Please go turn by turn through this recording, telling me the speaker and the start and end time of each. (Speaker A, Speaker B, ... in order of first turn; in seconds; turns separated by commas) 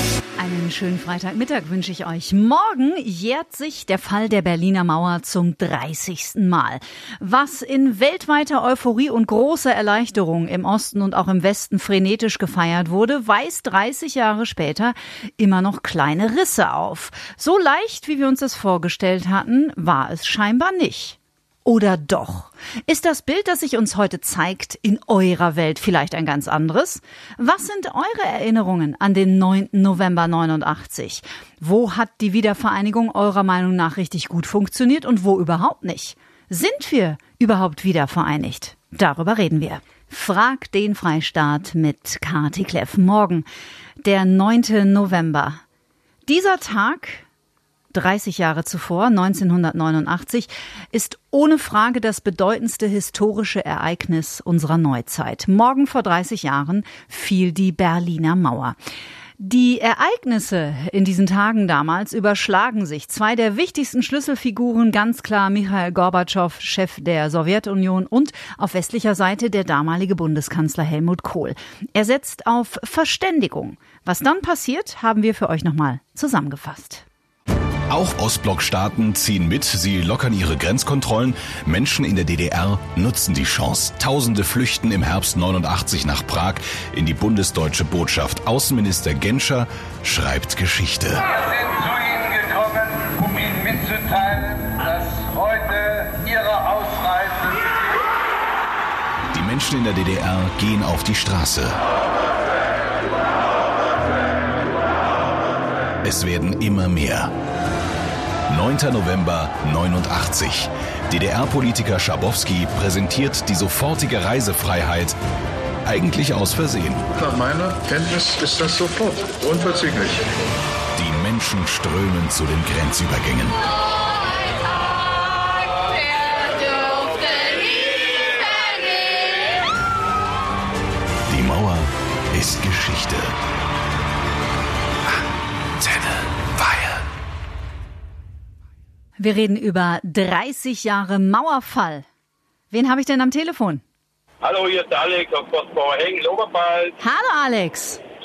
Speaker A: 0.4-43.5, Speaker A: 44.0-45.6, Speaker A: 46.3-47.2, Speaker A: 47.9-58.8, Speaker A: 59.4-77.0, Speaker B: 77.9-91.2, Speaker C: 91.7-97.5, Speaker B: 99.3-101.8, Speaker B: 106.0-107.3, Speaker B: 108.5-115.2, Speaker B: 115.9-117.1, Speaker D: 117.2-120.2, Speaker B: 121.0-123.6, Speaker B: 131.3-133.3, Speaker A: 139.2-142.1, Speaker A: 142.7-143.8, Speaker E: 144.4-146.9, Speaker A: 147.0-148.0